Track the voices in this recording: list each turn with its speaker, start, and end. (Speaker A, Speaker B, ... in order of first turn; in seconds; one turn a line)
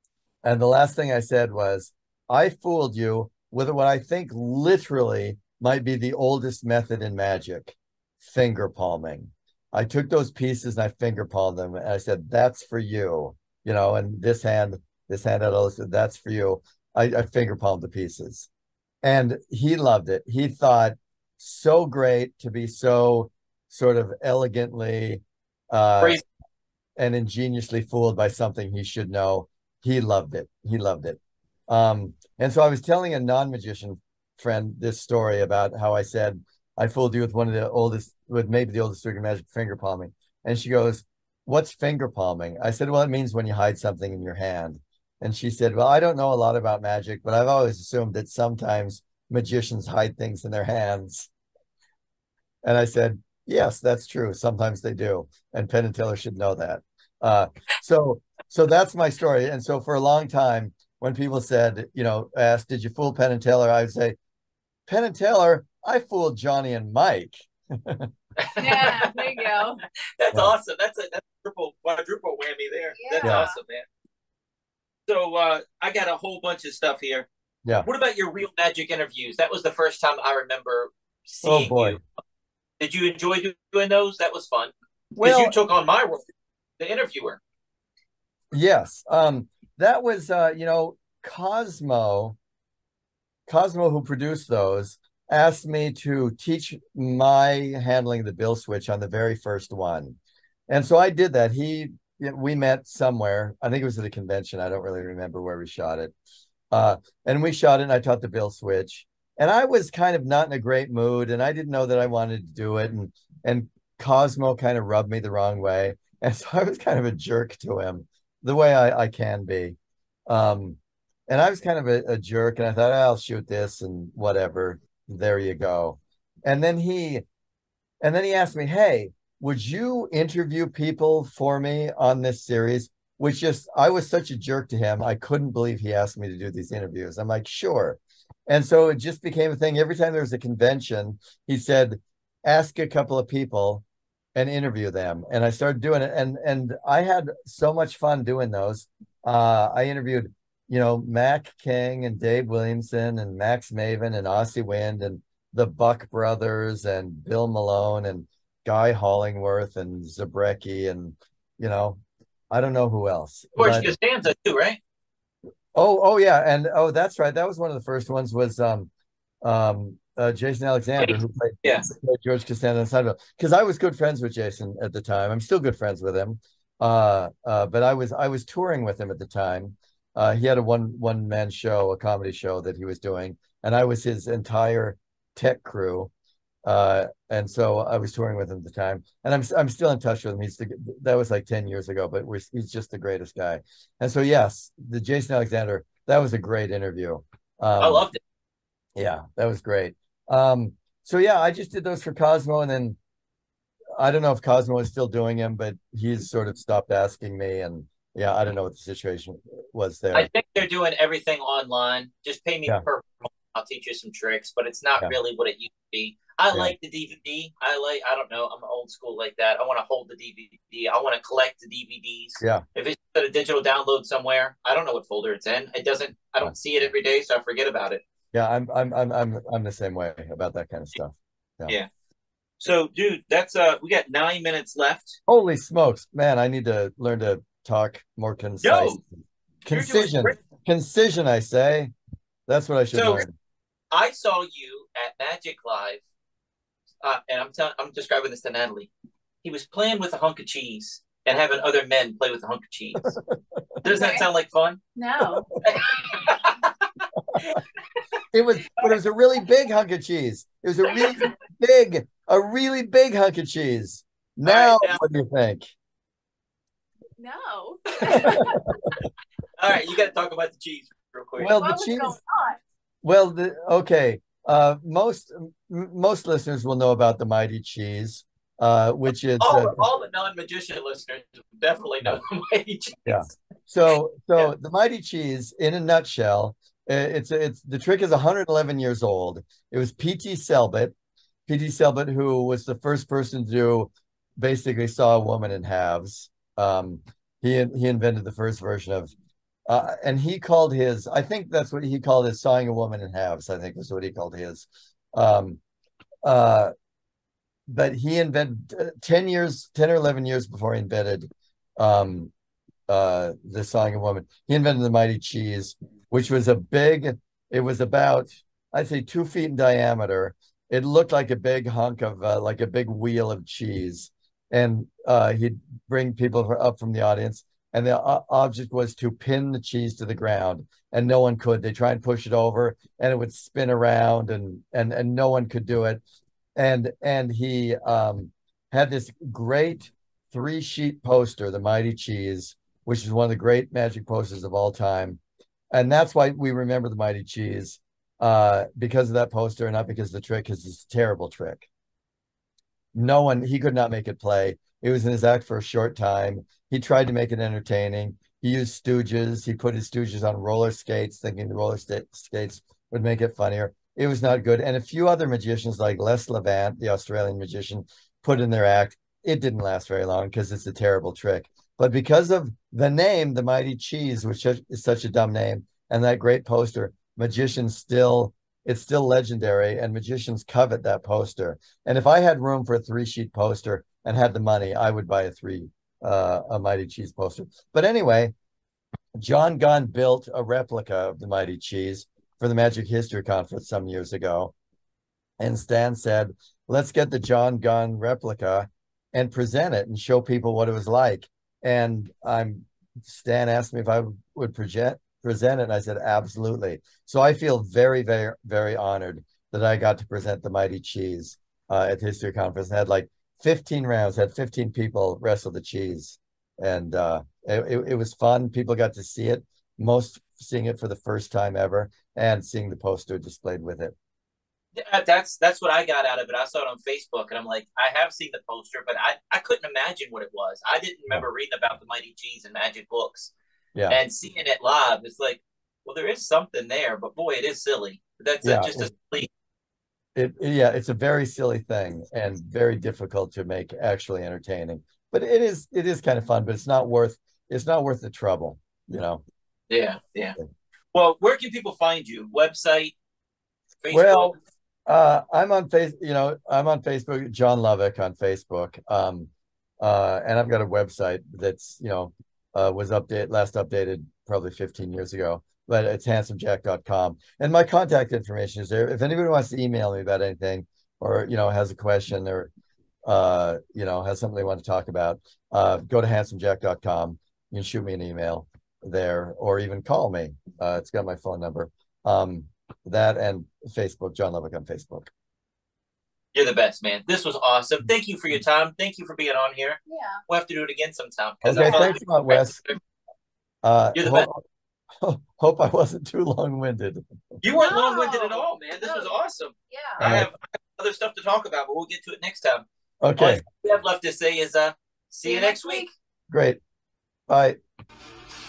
Speaker A: 0.4-18.5
Speaker A: 19.0-26.2
Speaker A: 27.0-51.3
Speaker A: 52.6-64.2
Speaker A: 64.9-68.1
Speaker B: 68.4-69.6
Speaker C: 68.6-69.8
Speaker B: 70.2-73.8
Speaker C: 73.0-73.5
Speaker A: 73.2-73.5
Speaker B: 75.1-77.3
Speaker B: 77.8-82.0
Speaker A: 81.4-82.0
Speaker B: 82.8-86.2
Speaker A: 85.2-85.5
Speaker B: 86.8-87.4
Speaker A: 88.5-92.4
Speaker A: 93.5-100.2
Speaker A: 100.7-106.1
Speaker A: 106.7-127.2
Speaker A: 128.0-143.8
Speaker A: 144.3-162.0
Speaker A: 162.5-163.9
Speaker B: 163.6-164.8
Speaker A: 165.7-168.9
Speaker A: 169.4-186.1
Speaker B: 171.0-171.9
Speaker A: 186.6-198.0
Speaker B: 197.8-198.2
Speaker A: 198.9-203.0
Speaker A: 204.0-210.3
Speaker B: 210.1-228.0
Speaker A: 226.4-226.9
Speaker A: 228.3-231.7
Speaker B: 232.6-235.2
Speaker A: 235.3-241.9
Speaker B: 238.6-239.0
Speaker B: 239.7-240.3
Speaker A: 242.5-243.3
Speaker B: 242.9-243.2
Speaker B: 243.9-246.0
Speaker B: 247.0-248.9
Speaker B: 249.4-253.2
Speaker A: 253.0-253.8
Speaker B: 253.8-254.8
Speaker C: 253.9-254.2
Speaker C: 254.9-256.2
Speaker B: 255.6-257.6
Speaker A: 258.3-265.7
Speaker B: 264.4-265.0
Speaker C: 267.2-268.7
Speaker B: 267.9-268.4
Speaker A: 268.1-268.8
Speaker B: 269.6-271.6
Speaker A: 271.4-272.1
Speaker C: 271.6-272.6
Speaker A: 273.0-279.8
Speaker B: 279.4-283.3
Speaker A: 283.1-290.9
Speaker A: 291.5-299.1
Speaker A: 299.7-305.6
Speaker A: 306.2-306.7
Speaker A: 307.7-312.3
Speaker A: 312.9-336.0
Speaker A: 336.6-345.2
Speaker A: 345.7-351.7
Speaker A: 352.9-388.3
Speaker A: 389.1-394.5
Speaker A: 395.4-423.9
Speaker B: 424.8-433.3
Speaker B: 433.9-439.3
Speaker A: 438.4-438.9
Speaker A: 440.1-449.2
Speaker B: 449.7-450.4
Speaker B: 450.9-452.9
Speaker B: 453.8-454.4
Speaker A: 453.9-454.3
Speaker A: 454.9-472.5
Speaker A: 473.0-485.1
Speaker B: 486.3-492.8
Speaker C: 489.9-490.2
Speaker A: 491.4-492.6
Speaker A: 493.6-494.4
Speaker B: 493.9-494.2
Speaker A: 495.0-497.0
Speaker B: 497.4-502.6
Speaker C: 497.6-499.1
Speaker C: 499.7-500.0
Speaker A: 500.0-500.3
Speaker A: 503.0-503.4
Speaker B: 503.2-505.9
Speaker C: 505.2-505.9
Speaker A: 506.3-506.6
Speaker A: 507.3-507.6